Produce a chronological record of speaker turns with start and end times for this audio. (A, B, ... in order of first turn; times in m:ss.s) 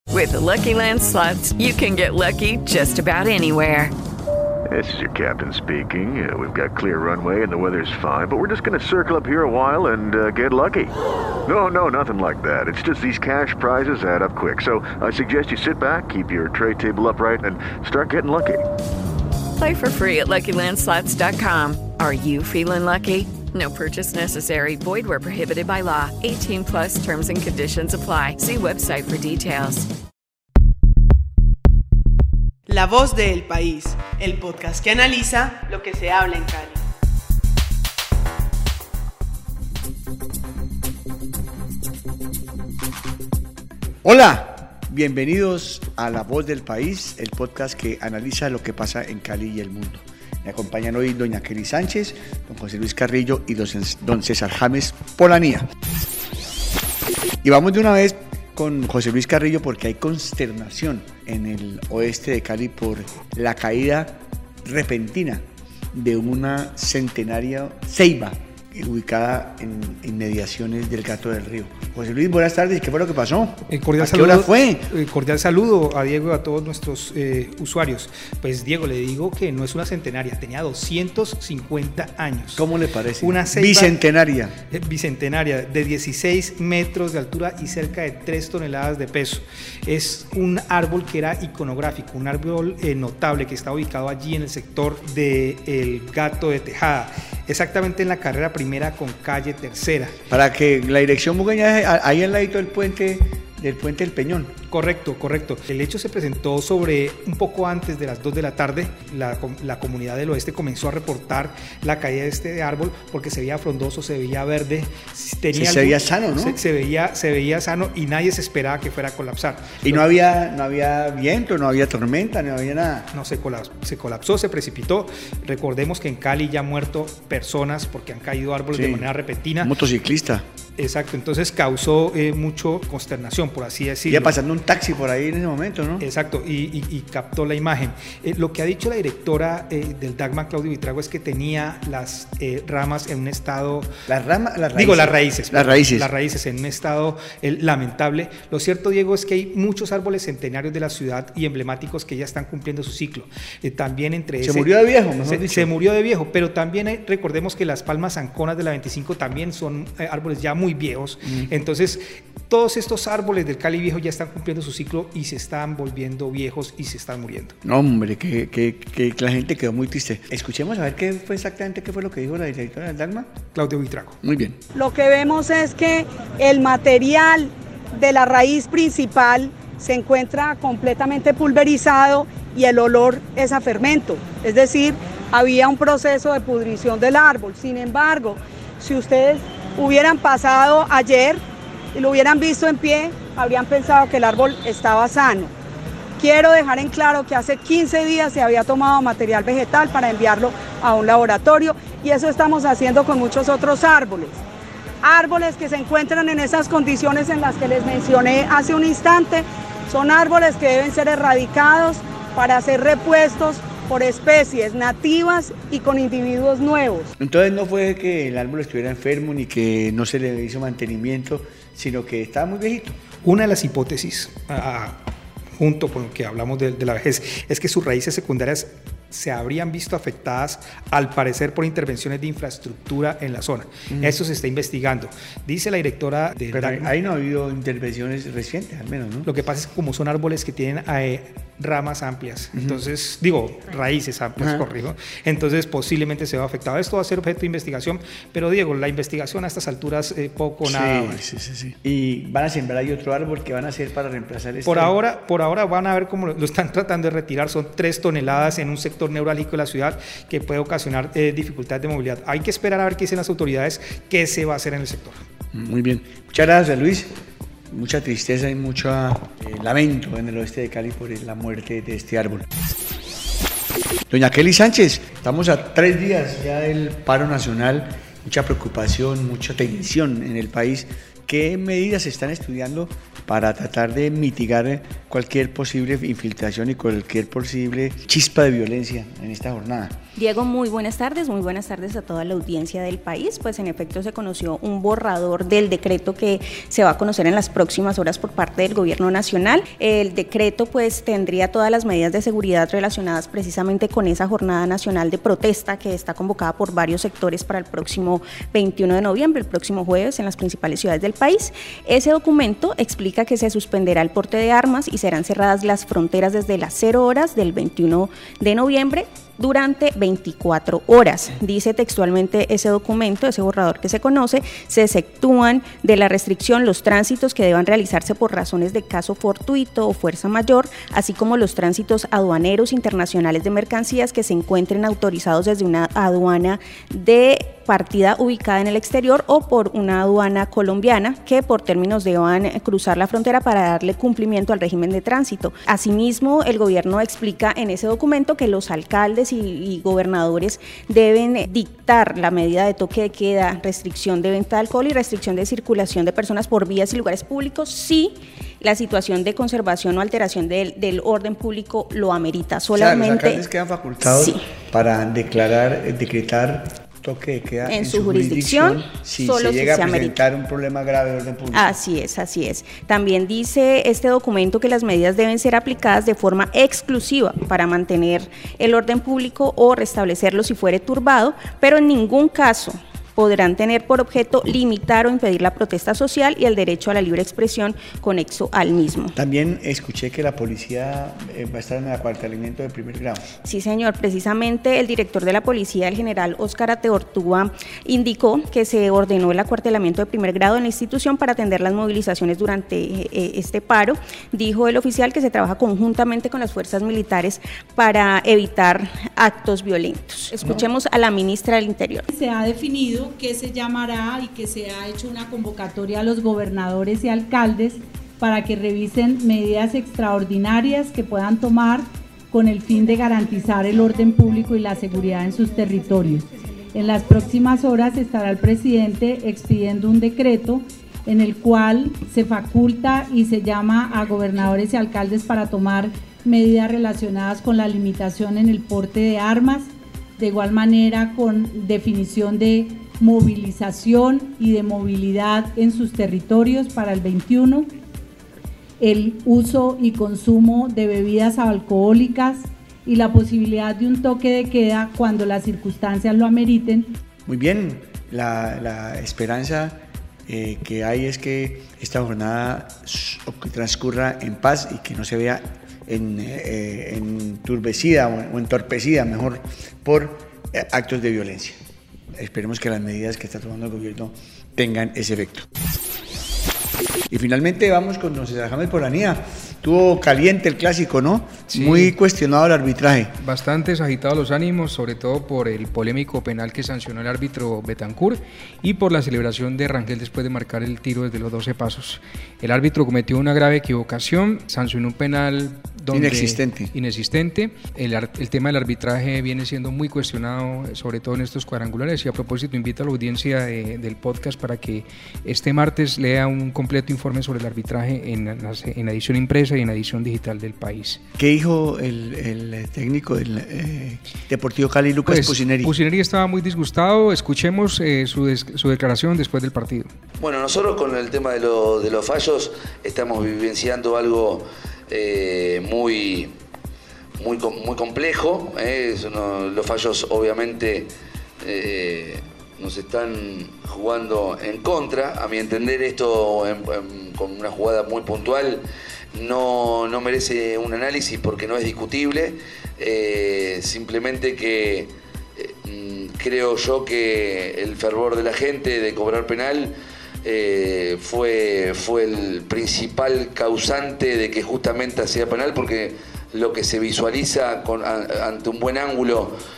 0:00.1-0:03.9 A
0:04.7-0:10.9 B
0:11.5-0:18.6 B
0:19.6-0:29.9 A
0:32.7-0:36.8 C
0:44.0-0:55.7 D
0:57.4-1:05.4 D
1:05.9-1:14.9 D
1:13.7-1:22.6 E
1:22.6-1:24.5 D
1:23.2-1:24.0 E
1:24.7-1:40.1 E
1:40.3-1:44.5 D
1:44.7-2:00.0 E
1:55.5-1:56.6 D
1:59.8-2:03.1 D
2:03.1-2:09.7 E
2:08.7-2:09.0 D
2:09.6-2:10.4 D
2:10.8-2:14.3 E
2:14.1-2:16.0 D
2:16.0-2:23.9 E
2:24.1-2:26.1 D
2:24.7-2:34.7 E
2:34.4-2:35.7 D
2:35.2-2:47.5 E
2:47.6-2:53.3 D
2:53.5-2:54.1 E
2:54.2-2:54.6 D
2:54.7-3:11.4 F
3:11.9-3:15.5 F
3:16.2-3:24.4 F
3:25.0-3:37.1 F
3:37.2-3:43.0 D
3:43.2-3:45.0 E
3:45.6-3:56.9 E
3:56.5-3:59.3 D
3:59.3-4:11.2 E
4:02.5-4:02.8 D
4:10.6-4:14.9 D
4:14.7-4:25.2 E
4:25.5-4:27.1 D
4:27.7-4:32.5 D
4:34.1-4:50.0 D
4:50.2-6:03.4 G
6:02.7-6:11.8 D
6:04.0-6:04.4 G
6:07.7-6:10.2 G
6:11.5-6:29.1 G
6:29.2-6:33.2 D
6:33.4-6:52.1 G
6:52.1-7:27.7 H
7:28.8-7:36.9 H
7:37.2-7:51.6 D
7:52.2-7:55.4 D
7:57.1-8:03.1 D
8:01.5-8:02.0 I
8:03.2-8:31.0 I
8:15.9-8:16.7 D
8:31.2-8:35.7 D
8:35.1-8:39.9 I
8:40.2-8:46.3 J
8:47.2-8:50.9 J
8:51.4-8:58.6 J
8:59.1-9:09.7 J
9:10.2-9:19.3 J